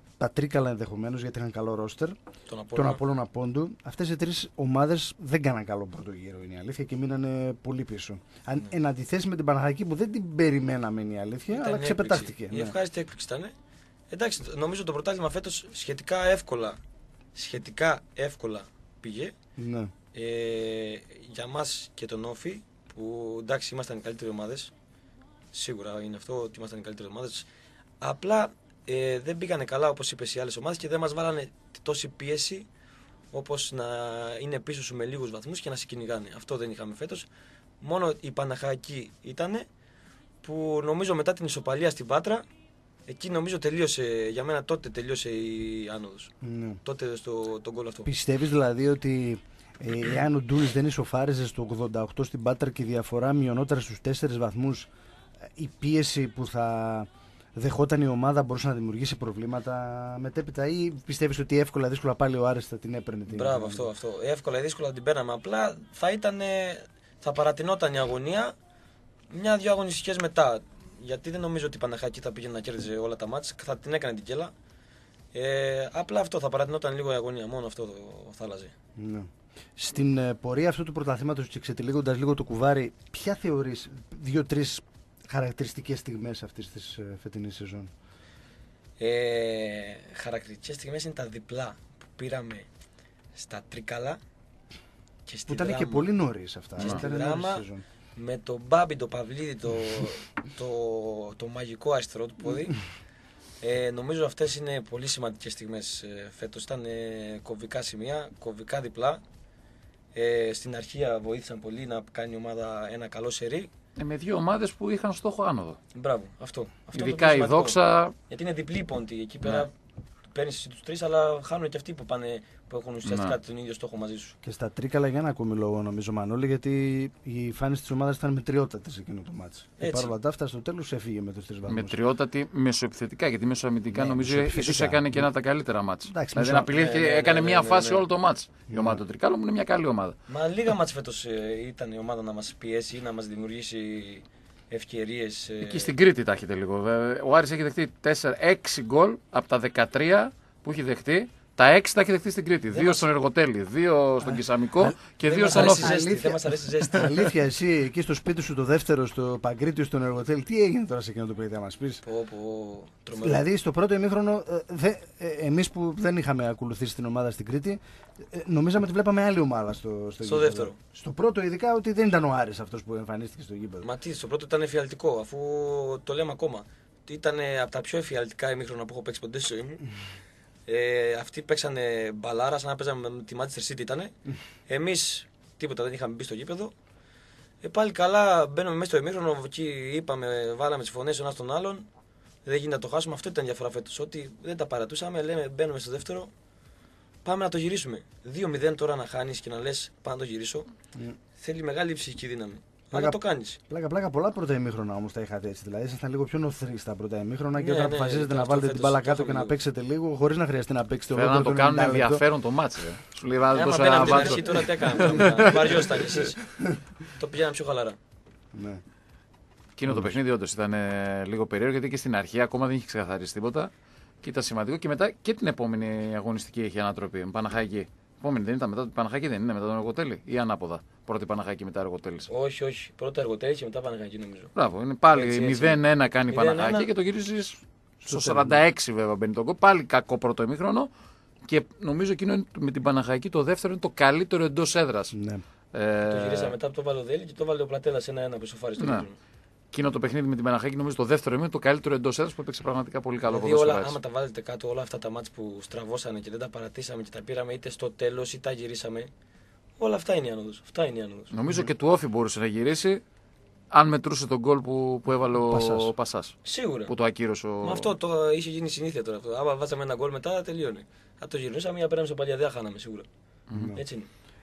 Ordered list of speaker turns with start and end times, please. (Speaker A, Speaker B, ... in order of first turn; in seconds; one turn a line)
Speaker A: 0.2-2.2
Speaker B: 2.5-3.0
Speaker A: 2.7-12.7
Speaker B: 11.5-13.5
Speaker B: 14.1-16.8
Speaker B: 17.3-19.3
Speaker A: 19.6-19.9
Speaker B: 20.1-24.7
Speaker B: 25.5-27.5
Speaker B: 28.0-32.7
Speaker B: 33.3-37.3
Speaker B: 37.8-39.7
Speaker B: 40.4-42.4
Speaker B: 43.1-46.3
Speaker A: 46.4-46.8
Speaker B: 46.8-48.1
Speaker A: 48.0-54.9
Speaker A: 55.5-63.9
Speaker B: 63.3-68.5
Speaker B: 69.3-74.5
Speaker B: 75.3-78.7
Speaker A: 79.0-87.9
Speaker B: 89.0-92.7
Speaker B: 93.3-94.2
Speaker B: 95.2-96.1
Speaker A: 95.5-97.8
Speaker B: 96.8-97.6
Speaker B: 98.2-102.8
Speaker B: 103.6-109.2
Speaker B: 110.1-113.7
Speaker C: 114.0-115.8
Speaker B: 115.9-117.8
Speaker C: 116.9-118.1
Speaker B: 118.3-119.7
Speaker B: 120.3-124.3
Speaker C: 123.0-123.3
Speaker A: 124.4-131.9
Speaker B: 129.8-130.1
Speaker C: 131.7-140.1
Speaker A: 133.9-135.3
Speaker A: 136.1-136.7
Speaker B: 136.7-138.0
Speaker A: 138.7-139.0
Speaker B: 140.3-145.9
Speaker C: 145.6-156.1
Speaker B: 152.7-153.1
Speaker A: 154.2-154.9
Speaker B: 155.2-157.3
Speaker A: 155.5-162.0
Speaker B: 162.0-163.4
Speaker A: 163.2-173.9
Speaker B: 170.2-170.8
Speaker B: 173.8-179.8
Speaker B: 180.7-184.1
Speaker B: 184.7-186.7
Speaker B: 187.6-191.8
Speaker B: 192.4-196.3
Speaker B: 197.2-200.7
Speaker B: 201.4-203.6
Speaker A: 202.9-212.2
Speaker B: 207.6-209.6
Speaker C: 211.1-216.2
Speaker B: 213.5-216.4
Speaker A: 215.1-215.4
Speaker B: 217.1-218.0
Speaker A: 218.5-218.8
Speaker C: 219.8-223.7
Speaker A: 219.9-220.2
Speaker C: 224.2-232.3
Speaker B: 232.3-234.5
Speaker C: 234.5-240.9
Speaker B: 235.1-236.9
Speaker A: 238.1-238.6
Speaker C: 241.4-245.1
Speaker A: 245.1-245.4
Speaker C: 245.7-246.5
Speaker B: 246.0-249.1
Speaker C: 248.8-249.1
Speaker C: 249.7-253.9
Speaker B: 253.2-259.1
Speaker B: 259.8-261.3
Speaker C: 261.3-263.0
Speaker C: 263.7-267.9
Speaker A: 265.5-265.9
Speaker B: 266.4-266.9
Speaker B: 267.6-273.1
Speaker C: 273.5-273.7
Speaker A: 273.5-273.8
Speaker B: 273.7-274.1